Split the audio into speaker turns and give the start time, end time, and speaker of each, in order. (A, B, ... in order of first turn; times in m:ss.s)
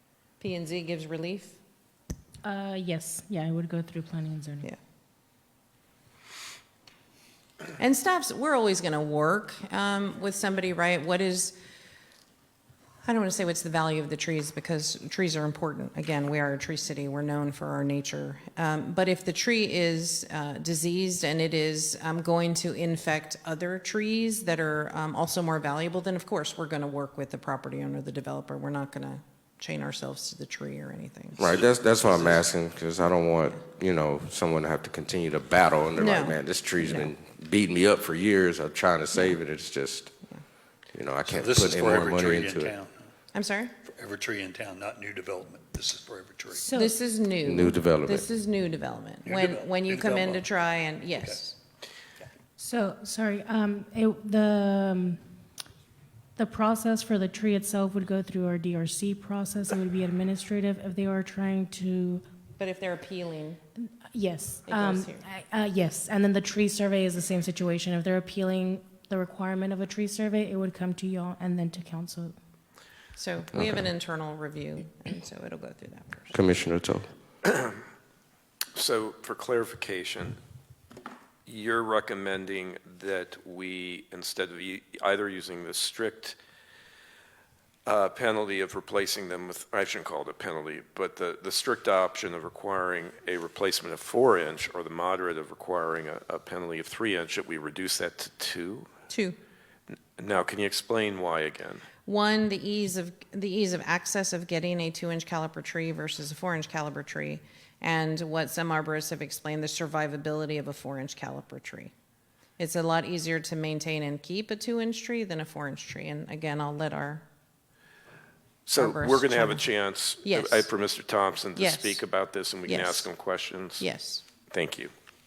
0:00.4-0:01.6 A
0:02.4-0:04.7 B
0:07.8-0:11.5 A
0:13.0-0:31.4 A
0:31.4-0:40.1 C
0:31.5-0:32.4 D
0:36.0-0:37.1 A
0:40.9-0:42.7 C
0:41.2-0:43.1 D
0:43.3-0:43.7 A
0:43.8-0:46.7 D
0:46.5-0:47.0 B
0:46.7-0:51.6 A
0:47.4-0:48.2 C
0:49.2-0:50.4 D
0:51.1-0:51.4 D
0:52.6-0:55.2 B
0:56.4-1:02.2 B
1:02.6-1:03.6 A
1:04.1-1:12.4 B
1:04.6-1:05.2 A
1:13.1-1:16.4 A
1:16.3-1:17.1 C
1:17.5-1:17.8 E
1:18.8-1:20.4 E
1:21.5-1:26.4 E
1:27.8-1:38.9 E
1:39.1-1:39.4 A
1:40.2-1:41.8 E
1:42.0-1:51.9 A
1:52.6-1:57.2 A
1:58.7-2:03.8 E
1:58.7-1:59.7 A
2:00.2-2:00.7 A
2:01.6-2:02.0 A
2:02.6-2:03.1 A
2:03.8-2:04.2 A
2:04.5-2:04.9 E